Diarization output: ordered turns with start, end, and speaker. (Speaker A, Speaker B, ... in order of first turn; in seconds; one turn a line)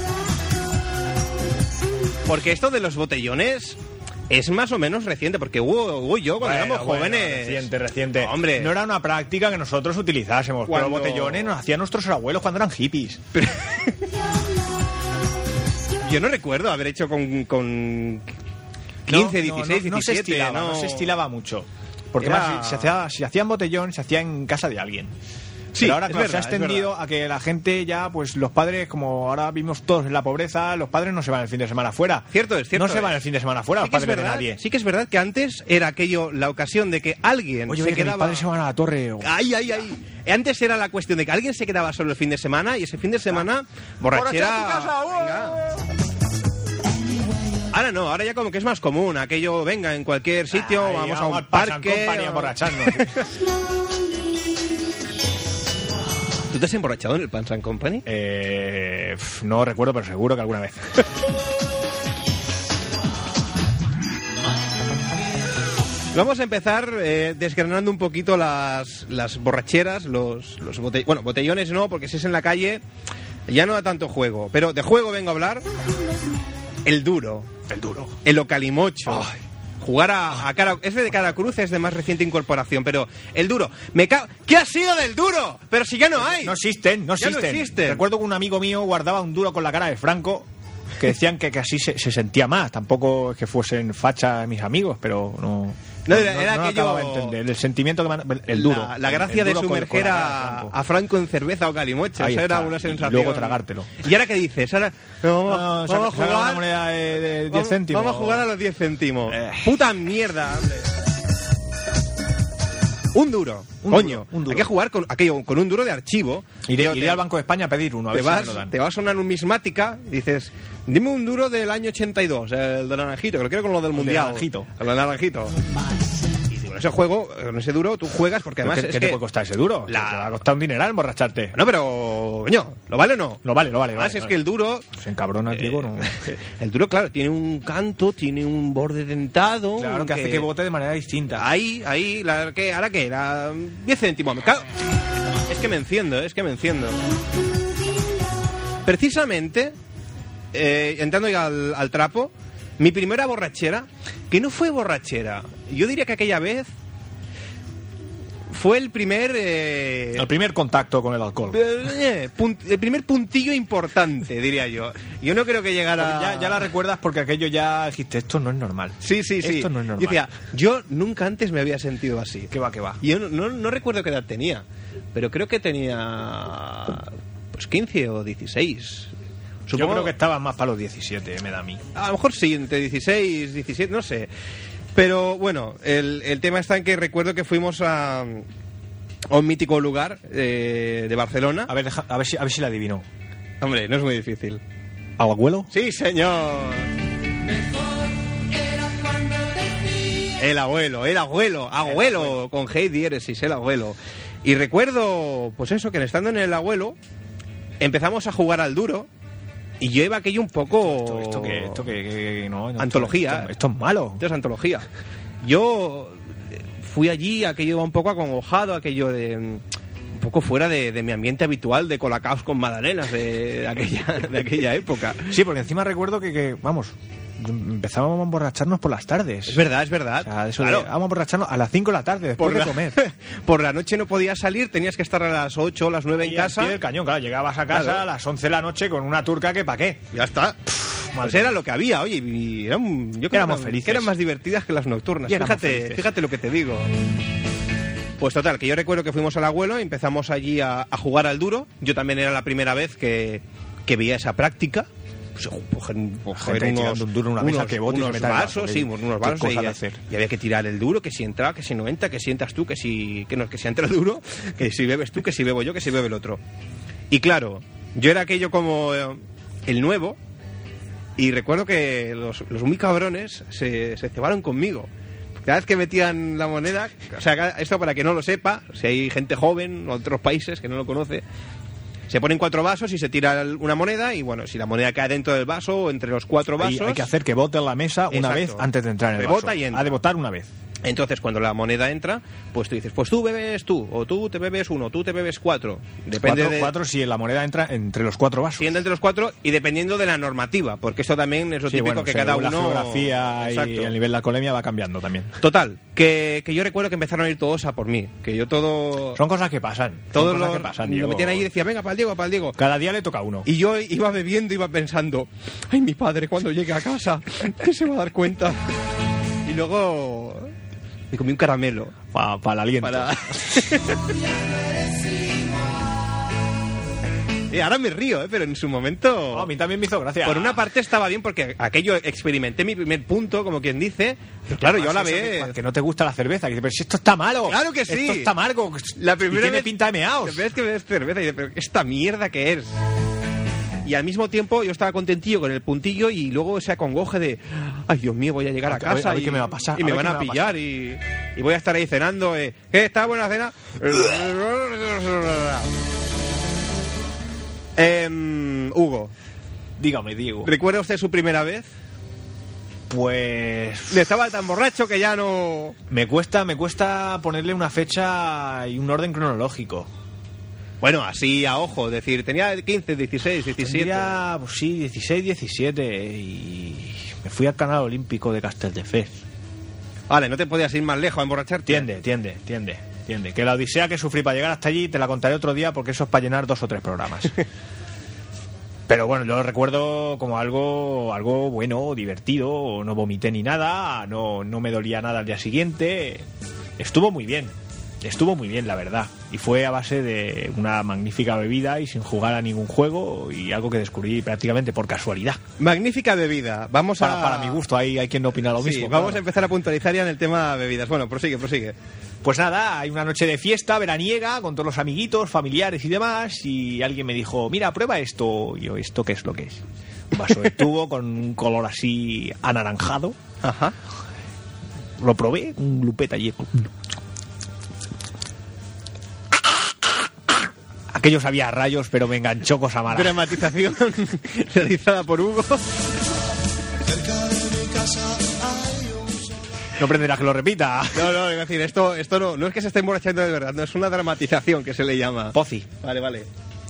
Speaker A: 2.2-8.7
Speaker B: 6.4-13.2
Speaker A: 10.7-11.5
Speaker A: 13.3-14.0
Speaker A: 16.0-18.3
Speaker A: 19.1-21.2
Speaker B: 19.1-25.1
Speaker A: 22.2-22.9
Speaker A: 25.7-26.9
Speaker B: 25.8-34.6
Speaker A: 32.3-33.2
Speaker A: 33.8-38.4
Speaker B: 37.7-39.3
Speaker A: 39.2-45.6
Speaker B: 44.1-45.5
Speaker A: 47.7-53.2
Speaker B: 50.5-53.2
Speaker A: 56.5-58.0
Speaker B: 58.0-61.0
Speaker A: 66.1-72.8
Speaker A: 73.5-75.6
Speaker A: 76.8-77.5
Speaker B: 77.7-78.2
Speaker A: 78.2-86.6
Speaker B: 79.1-79.4
Speaker B: 86.4-100.7
Speaker A: 87.2-88.0
Speaker A: 96.1-97.4
Speaker A: 98.5-106.6
Speaker B: 102.2-104.0
Speaker B: 105.4-108.5
Speaker A: 107.5-110.9
Speaker B: 109.3-109.8
Speaker A: 113.1-117.2
Speaker B: 113.8-114.7
Speaker B: 116.7-118.7
Speaker A: 118.1-125.5
Speaker B: 123.9-124.7
Speaker A: 126.5-129.2
Speaker B: 128.6-131.5
Speaker A: 129.9-130.3
Speaker A: 131.5-133.4
Speaker B: 133.4-134.3
Speaker A: 133.9-134.8
Speaker B: 134.9-136.3
Speaker A: 135.6-140.5
Speaker B: 139.8-141.4
Speaker A: 141.4-144.7
Speaker A: 145.5-147.0
Speaker A: 148.8-149.7
Speaker A: 150.5-156.7
Speaker A: 158.5-160.3
Speaker B: 160.2-161.6
Speaker A: 161.5-166.7
Speaker B: 166.0-170.2
Speaker A: 169.0-172.5
Speaker B: 172.5-173.0
Speaker A: 173.0-179.1
Speaker A: 179.7-180.1
Speaker B: 179.7-181.8
Speaker A: 181.9-184.3
Speaker A: 184.9-188.4
Speaker A: 189.3-191.7
Speaker B: 191.7-193.1
Speaker A: 193.6-194.6
Speaker B: 195.2-195.7
Speaker A: 195.7-196.9
Speaker A: 200.3-207.0
Speaker B: 201.8-202.4
Speaker A: 207.8-209.1
Speaker A: 209.8-211.9
Speaker B: 210.8-214.2
Speaker A: 212.8-213.5
Speaker A: 214.2-214.8
Speaker A: 215.4-219.6
Speaker A: 220.1-225.4
Speaker B: 225.3-229.6
Speaker A: 229.5-230.9
Speaker B: 230.2-233.0
Speaker A: 232.4-236.8
Speaker B: 236.2-240.0
Speaker A: 237.7-238.0
Speaker A: 240.1-240.6
Speaker B: 241.1-241.5
Speaker A: 241.2-246.9
Speaker B: 243.3-244.1
Speaker B: 245.3-246.1
Speaker A: 248.2-266.4
Speaker B: 256.3-260.0
Speaker A: 267.1-270.2
Speaker A: 271.2-274.9
Speaker A: 275.4-281.2
Speaker A: 282.1-287.1
Speaker B: 286.6-290.5
Speaker A: 288.1-288.6
Speaker A: 289.2-289.9
Speaker A: 290.8-296.7
Speaker B: 296.2-298.8
Speaker A: 298.6-303.9
Speaker B: 301.7-305.4
Speaker A: 305.4-309.2
Speaker B: 309.1-311.5
Speaker A: 310.1-312.6
Speaker B: 312.6-313.5
Speaker A: 313.4-318.6
Speaker A: 319.4-320.5
Speaker A: 321.1-321.9
Speaker B: 322.1-323.8
Speaker A: 322.8-324.0
Speaker A: 327.5-329.5
Speaker B: 329.3-330.6
Speaker A: 330.2-335.5
Speaker B: 334.6-340.4
Speaker A: 337.5-338.3
Speaker A: 339.0-342.8
Speaker A: 343.8-355.7
Speaker B: 348.6-350.6
Speaker A: 357.8-359.1
Speaker B: 359.8-360.5
Speaker A: 360.4-361.7
Speaker B: 362.9-364.1
Speaker A: 363.9-365.8
Speaker B: 365.9-369.9
Speaker A: 370.8-374.1
Speaker B: 373.6-379.2
Speaker A: 380.1-381.9
Speaker B: 381.6-387.3
Speaker B: 388.9-396.3
Speaker B: 396.8-405.4
Speaker A: 405.6-407.6
Speaker B: 407.0-409.2
Speaker A: 408.6-411.7
Speaker B: 412.2-423.2
Speaker A: 423.4-423.7
Speaker B: 425.0-426.7
Speaker B: 430.9-433.2
Speaker A: 432.9-435.6
Speaker A: 437.9-439.0
Speaker B: 439.8-441.2
Speaker A: 440.9-446.3
Speaker B: 445.3-445.7